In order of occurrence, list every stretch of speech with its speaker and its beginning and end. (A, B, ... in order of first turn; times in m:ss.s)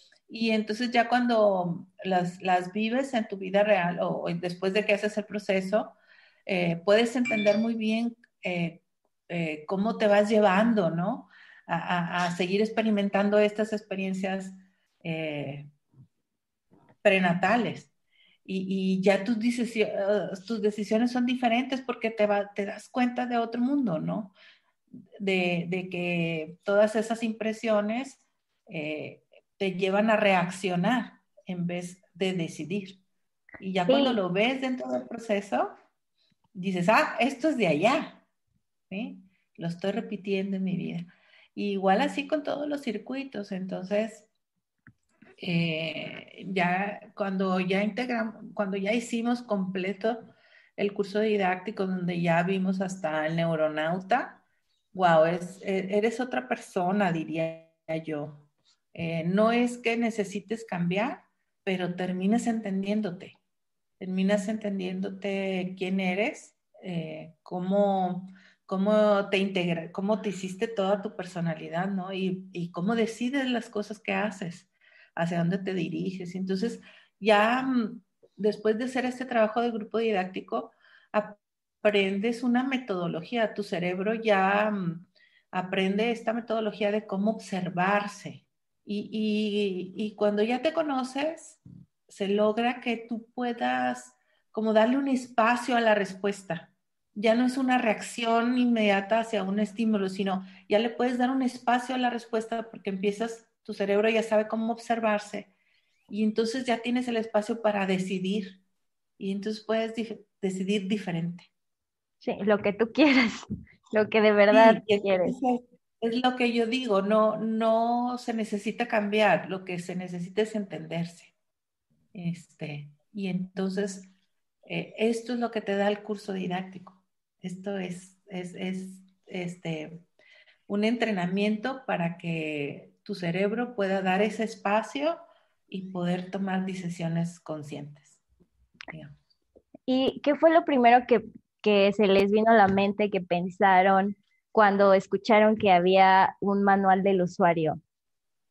0:00.3-0:15.7 A
0:17.0-0:17.9 A
0:18.5-0:24.3 A
0:25.2-0:33.0 A
0:33.6-0:35.7 A
0:33.9-0:34.2 B
0:36.6-0:38.2 A
0:38.9-0:44.3 A
0:45.4-1:03.4 A
1:04.0-1:45.5 A
1:46.1-1:48.6 A
1:49.2-1:51.5 A
1:52.2-1:55.3 B
1:54.5-2:01.3 A
2:02.1-2:04.1 A
2:04.7-2:10.1 A
2:10.7-2:18.2 A
2:19.9-2:27.8 B